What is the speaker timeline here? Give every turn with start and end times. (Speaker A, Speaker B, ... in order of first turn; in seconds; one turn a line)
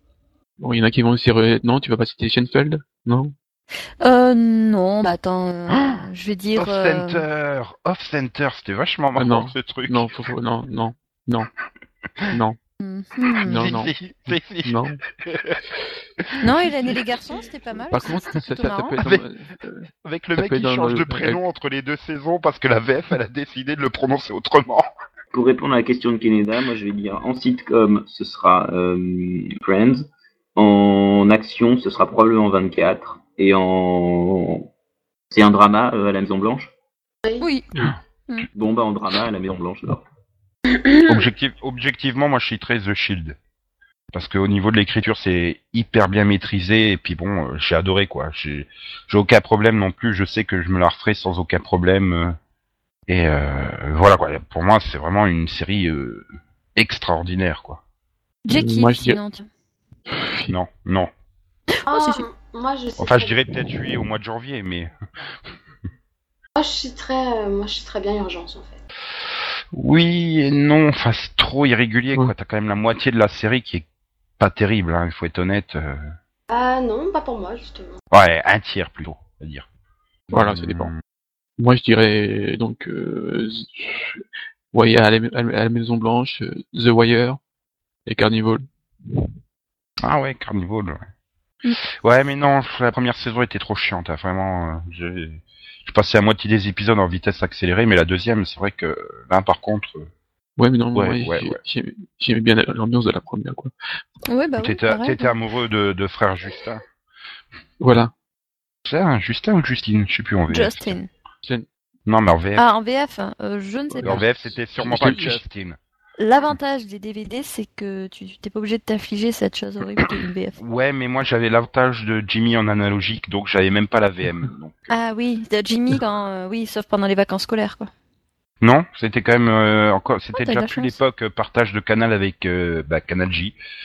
Speaker A: 0.6-3.3
Speaker B: 4.0-7.2
Speaker C: 5.7-6.0
Speaker C: 6.5-10.1
Speaker A: 9.2-11.5
Speaker A: 12.3-12.6
Speaker B: 12.8-13.9
Speaker A: 13.4-13.9
Speaker C: 13.4-15.6
Speaker A: 14.6-15.0
Speaker B: 16.4-19.0
Speaker A: 17.9-21.4
Speaker C: 20.0-24.9
Speaker D: 25.3-34.7
Speaker D: 35.3-36.7
Speaker B: 37.4-37.7
Speaker D: 38.5-40.0
Speaker E: 40.7-41.3
Speaker C: 41.0-43.4
Speaker C: 44.1-52.4
Speaker C: 53.1-57.8
Speaker B: 58.4-59.5
Speaker A: 58.5-59.2
Speaker A: 60.1-60.5
Speaker C: 60.5-61.1
Speaker B: 61.7-62.2
Speaker E: 61.9-63.4
Speaker C: 63.0-64.9
Speaker E: 66.5-68.8
Speaker C: 69.7-73.8
Speaker C: 74.4-76.1
Speaker E: 76.5-77.9
Speaker C: 78.1-79.7
Speaker C: 80.3-81.0
Speaker A: 80.3-80.9
Speaker A: 81.6-87.4
Speaker A: 88.0-89.2
Speaker C: 90.0-91.0
Speaker C: 91.8-100.1
Speaker A: 100.6-103.7
Speaker C: 100.9-101.6
Speaker B: 104.3-105.3
Speaker C: 104.6-106.8
Speaker A: 107.8-108.1
Speaker C: 108.8-111.0
Speaker B: 110.5-111.1
Speaker C: 112.1-112.7
Speaker B: 112.5-114.2
Speaker A: 113.9-115.4
Speaker C: 114.0-115.8
Speaker B: 116.2-120.6
Speaker C: 120.6-125.0
Speaker B: 124.9-127.9
Speaker C: 128.6-133.6
Speaker B: 130.3-131.0